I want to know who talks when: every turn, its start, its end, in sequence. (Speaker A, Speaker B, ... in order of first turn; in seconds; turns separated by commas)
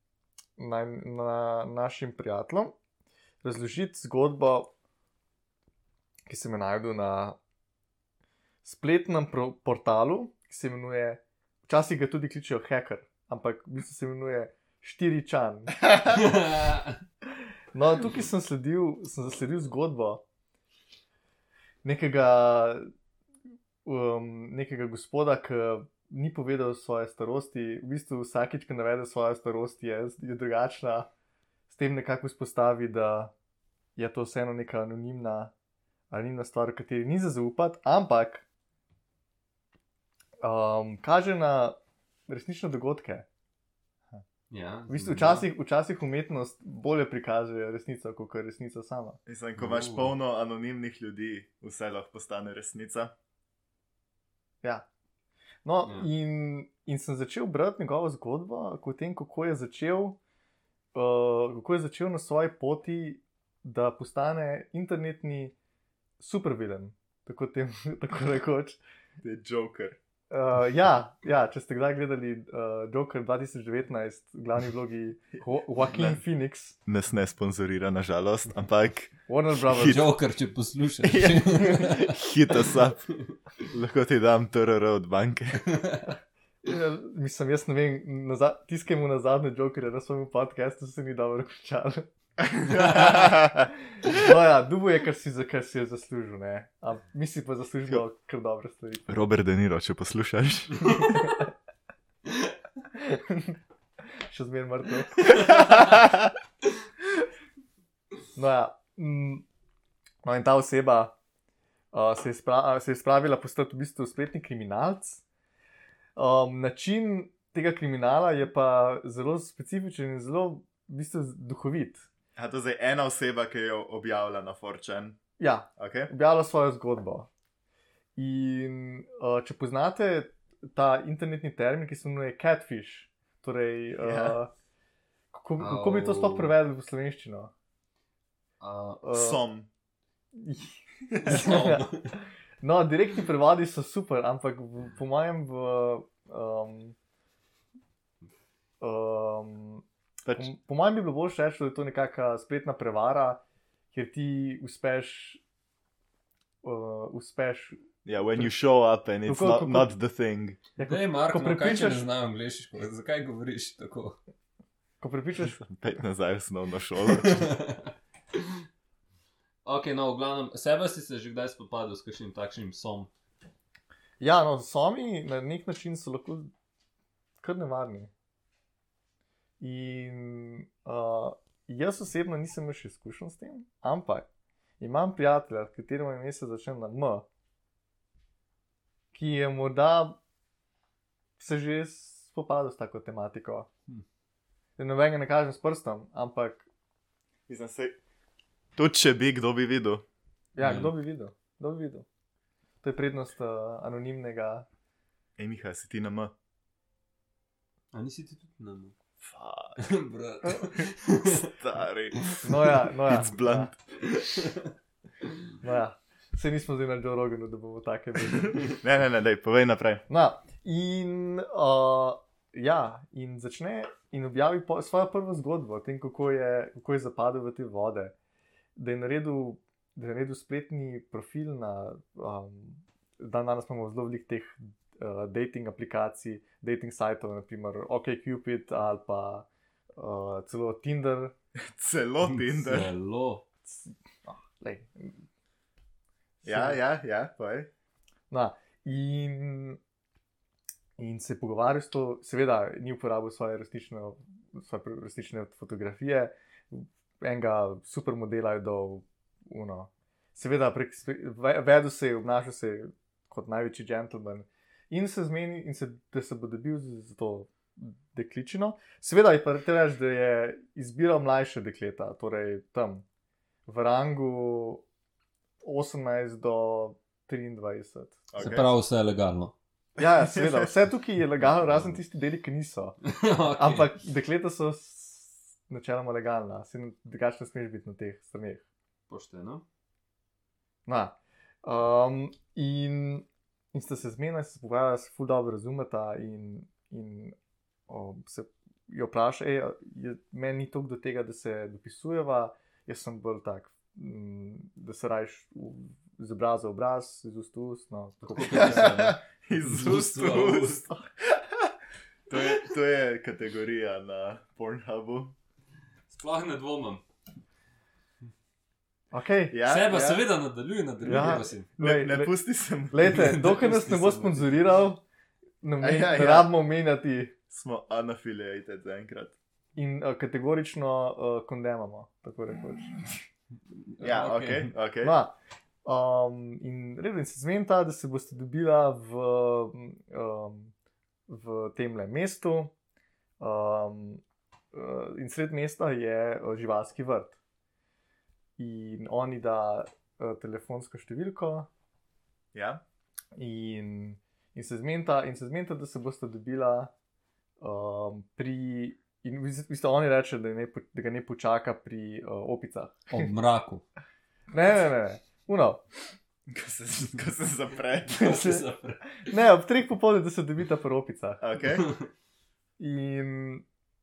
Speaker A: 0.6-2.8, Speaker A: 3.4-4.7, Speaker A: 6.3-7.4, Speaker A: 8.6-15.8, Speaker B: 16.1-17.0, Speaker A: 17.7-20.2, Speaker A: 21.8-22.9, Speaker A: 23.9-31.1, Speaker A: 31.7-33.3, Speaker A: 34.0-35.5, Speaker A: 36.1-38.5, Speaker A: 40.4-41.8, Speaker A: 42.3-43.3, Speaker B: 44.5-45.5, Speaker A: 44.9-49.2, Speaker C: 49.3-53.1, Speaker B: 49.6-50.1, Speaker A: 55.6-60.2, Speaker A: 60.9-65.5, Speaker A: 66.2-68.8, Speaker C: 69.2-70.0, Speaker A: 70.3-76.8, Speaker C: 75.8-76.2, Speaker C: 76.9-79.2, Speaker A: 79.3-80.1, Speaker C: 79.7-80.1, Speaker B: 79.7-82.8, Speaker C: 81.0-83.0, Speaker C: 83.7-85.7, Speaker B: 85.7-86.1, Speaker A: 86.6-92.1, Speaker C: 92.4-94.1, Speaker B: 92.8-93.2, Speaker A: 94.1-99.2, Speaker C: 99.1-101.1, Speaker A: 102.9-103.6, Speaker A: 104.3-106.0, Speaker A: 108.4-109.5, Speaker A: 110.2-111.2, Speaker A: 111.9-115.2, Speaker A: 116.2-122.1, Speaker C: 122.4-125.2, Speaker A: 125.4-127.3, Speaker C: 125.8-126.1, Speaker A: 128.2-134.5, Speaker C: 134.0-134.4, Speaker A: 135.3-137.5, Speaker B: 135.6-136.6, Speaker B: 138.6-139.0, Speaker A: 139.0-139.4, Speaker C: 139.1-139.7, Speaker A: 140.3-141.9, Speaker B: 141.2-142.1, Speaker A: 142.6-147.0, Speaker A: 148.8-153.4, Speaker A: 153.9-155.4, Speaker A: 156.6-157.8, Speaker C: 158.1-160.6, Speaker A: 159.3-159.9, Speaker A: 160.8-162.1, Speaker B: 160.8-164.2, Speaker A: 165.0-165.6, Speaker C: 165.5-167.5, Speaker B: 167.2-168.4, Speaker B: 169.7-173.1, Speaker A: 174.2-176.5, Speaker A: 177.4-178.1, Speaker A: 179.6-184.3, Speaker A: 184.8-187.3, Speaker A: 189.1-190.2, Speaker A: 191.4-193.7, Speaker A: 194.8-196.7, Speaker C: 197.5-198.0, Speaker C: 198.8-200.0, Speaker A: 200.6-202.1, Speaker B: 200.6-200.9, Speaker A: 202.8-204.7, Speaker C: 205.4-206.3, Speaker B: 207.9-208.9, Speaker C: 209.2-209.8, Speaker B: 209.8-211.5, Speaker C: 211.2-212.4, Speaker B: 212.2-212.5, Speaker A: 212.4-213.7, Speaker C: 213.0-213.9, Speaker B: 214.0-214.7, Speaker A: 215.6-218.8, Speaker C: 218.7-220.0, Speaker A: 220.1-228.2, Speaker A: 228.8-241.3, Speaker C: 241.6-242.9, Speaker B: 242.2-243.4, Speaker A: 243.7-245.2, Speaker A: 246.4-246.8, Speaker C: 246.4-247.7, Speaker A: 248.3-249.8, Speaker A: 251.0-273.1, Speaker A: 273.7-274.8, Speaker A: 275.6-278.3, Speaker C: 278.3-278.7, Speaker B: 278.4-279.5, Speaker A: 280.0-283.0, Speaker C: 280.0-280.7, Speaker B: 283.0-283.9, Speaker A: 283.6-288.6, Speaker B: 289.1-289.6, Speaker A: 290.9-297.4, Speaker A: 297.9-308.9, Speaker B: 308.3-310.9, Speaker C: 308.5-311.7, Speaker C: 312.3-315.3, Speaker B: 316.1-317.0, Speaker A: 319.1-319.6, Speaker C: 319.5-320.3, Speaker B: 319.6-321.7, Speaker A: 321.1-322.4, Speaker C: 321.1-323.4, Speaker A: 322.9-325.0, Speaker B: 323.1-324.8, Speaker A: 325.6-327.3, Speaker C: 325.8-326.5, Speaker C: 327.5-329.4, Speaker A: 329.8-333.0, Speaker B: 334.0-334.7, Speaker C: 334.0-335.1, Speaker A: 335.0-340.7, Speaker A: 341.3-342.7, Speaker A: 343.4-344.2, Speaker A: 344.7-347.4, Speaker A: 348.6-351.7, Speaker C: 352.5-352.8, Speaker A: 353.4-356.9, Speaker A: 357.6-363.3, Speaker B: 363.1-363.8, Speaker A: 364.5-365.8, Speaker C: 366.5-368.4, Speaker B: 368.2-369.3, Speaker A: 368.2-368.6, Speaker A: 369.2-371.4, Speaker C: 371.4-371.9, Speaker A: 372.8-373.6